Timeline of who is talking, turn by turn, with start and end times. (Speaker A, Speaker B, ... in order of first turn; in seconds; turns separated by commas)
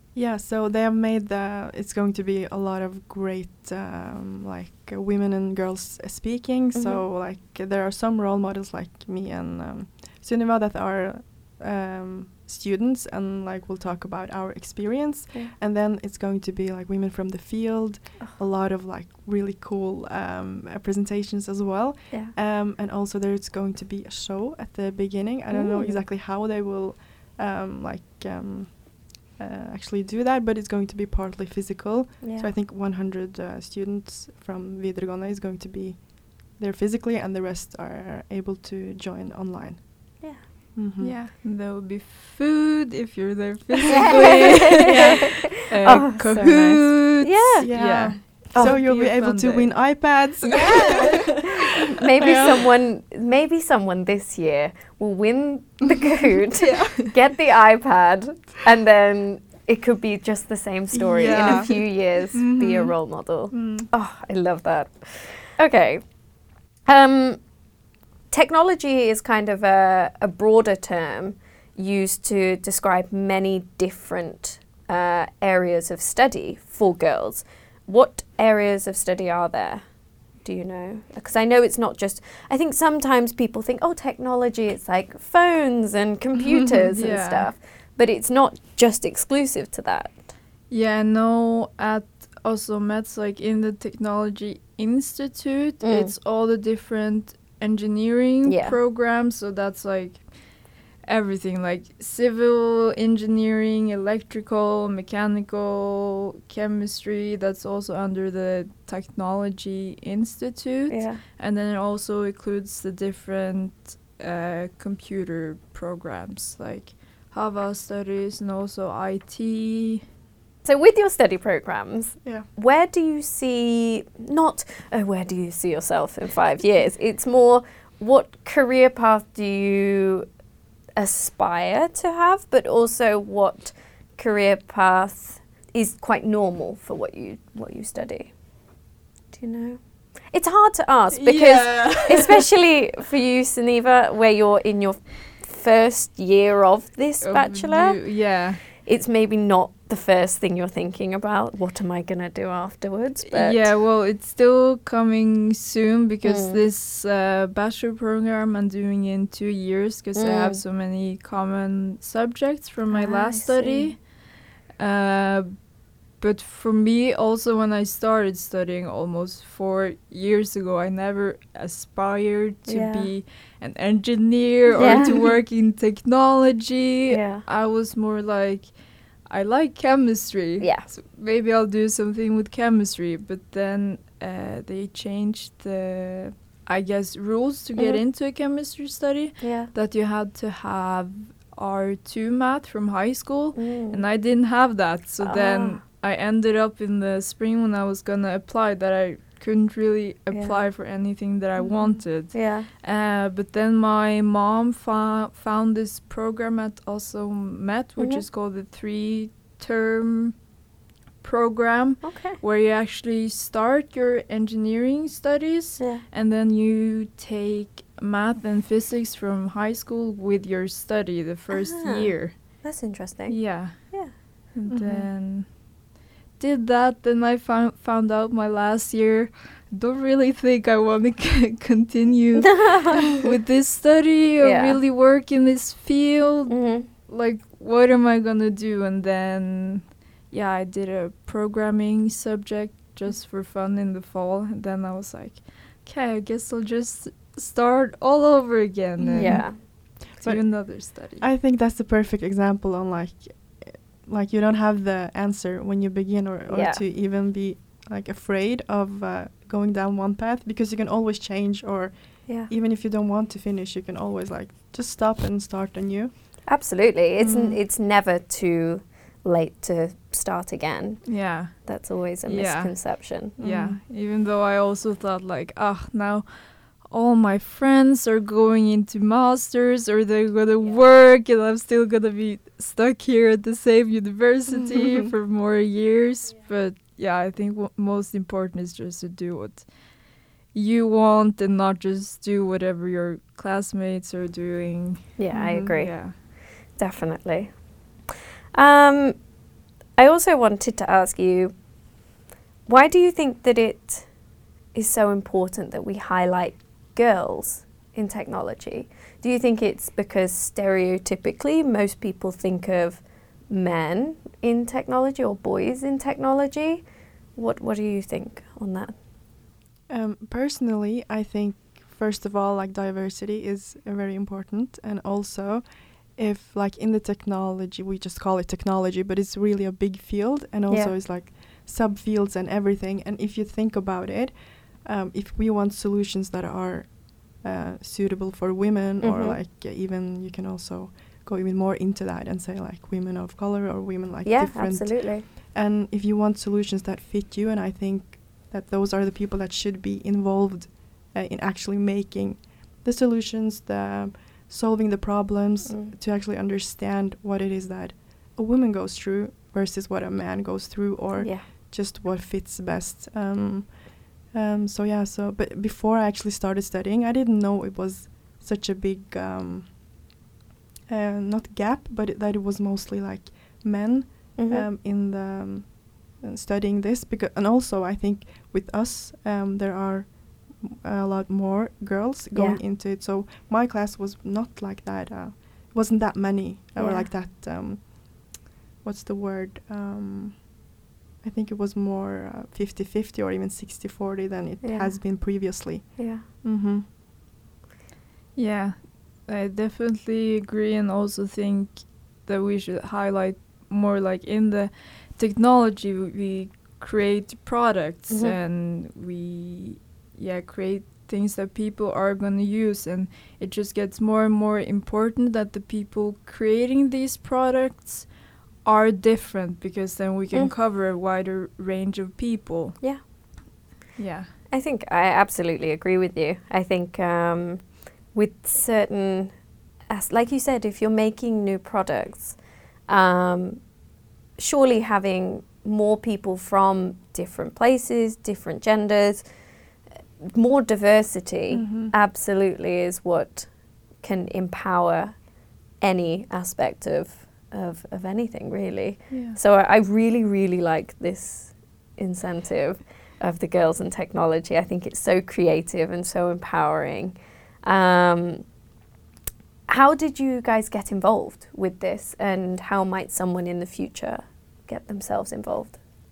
Speaker A: 0.1-41.2, Speaker B: 6.7-7.0, Speaker B: 25.5-26.0, Speaker B: 32.2-32.5, Speaker B: 40.2-40.5, Speaker C: 41.0-51.4, Speaker B: 43.9-48.8, Speaker A: 44.6-45.4, Speaker A: 47.6-51.1, Speaker B: 50.5-66.2, Speaker A: 52.2-52.7, Speaker C: 56.6-57.1, Speaker A: 60.9-63.0, Speaker C: 61.2-61.8, Speaker A: 63.5-63.9, Speaker B: 66.8-67.5, Speaker B: 68.3-90.2, Speaker A: 86.3-86.9, Speaker C: 86.9-87.5, Speaker C: 90.7-120.0, Speaker B: 95.8-96.1, Speaker B: 98.5-98.8, Speaker B: 110.9-111.2, Speaker B: 120.7-130.3, Speaker B: 131.0-138.4, Speaker B: 139.3-153.7, Speaker C: 141.1-142.5, Speaker C: 147.2-148.6, Speaker C: 153.3-164.1, Speaker B: 156.2-156.6, Speaker B: 160.2-160.6, Speaker B: 162.9-163.9, Speaker C: 164.8-210.4, Speaker B: 172.7-173.1, Speaker A: 174.8-175.4, Speaker B: 174.8-175.2, Speaker B: 177.1-177.4, Speaker B: 180.6-180.9, Speaker B: 189.4-189.7, Speaker B: 193.6-194.0, Speaker B: 195.2-195.8, Speaker B: 200.3-200.7, Speaker A: 201.6-202.0, Speaker B: 202.3-202.7, Speaker B: 208.0-208.2, Speaker C: 211.2-222.7, Speaker B: 212.0-212.4, Speaker B: 215.8-216.0, Speaker B: 221.5-224.1, Speaker C: 223.3-225.6, Speaker A: 224.7-225.1, Speaker C: 226.4-251.2, Speaker B: 232.4-233.3, Speaker B: 234.4-234.8, Speaker B: 236.5-236.9, Speaker A: 249.0-266.4, Speaker B: 249.2-249.6, Speaker B: 256.5-256.8, Speaker B: 266.5-273.4, Speaker A: 267.2-267.6, Speaker C: 271.1-290.0, Speaker A: 273.4-273.8, Speaker A: 284.5-285.1, Speaker C: 290.5-296.2, Speaker B: 295.2-297.6, Speaker A: 295.3-295.7, Speaker B: 298.6-299.3, Speaker B: 300.0-301.6, Speaker B: 302.7-304.1, Speaker B: 304.7-318.9, Speaker A: 319.9-369.8, Speaker B: 330.7-330.9, Speaker B: 339.0-339.4, Speaker B: 344.2-345.3, Speaker B: 355.7-355.9, Speaker B: 361.2-361.5, Speaker A: 370.9-390.6, Speaker B: 374.4-374.7, Speaker B: 382.3-382.6, Speaker B: 386.8-387.1, Speaker A: 391.2-396.9, Speaker B: 394.6-396.2, Speaker C: 398.4-422.8, Speaker B: 408.1-408.4, Speaker C: 424.0-424.3, Speaker B: 424.5-433.7, Speaker B: 434.4-439.3, Speaker B: 440.2-458.5, Speaker A: 441.5-441.9, Speaker C: 449.1-449.4, Speaker B: 459.7-465.8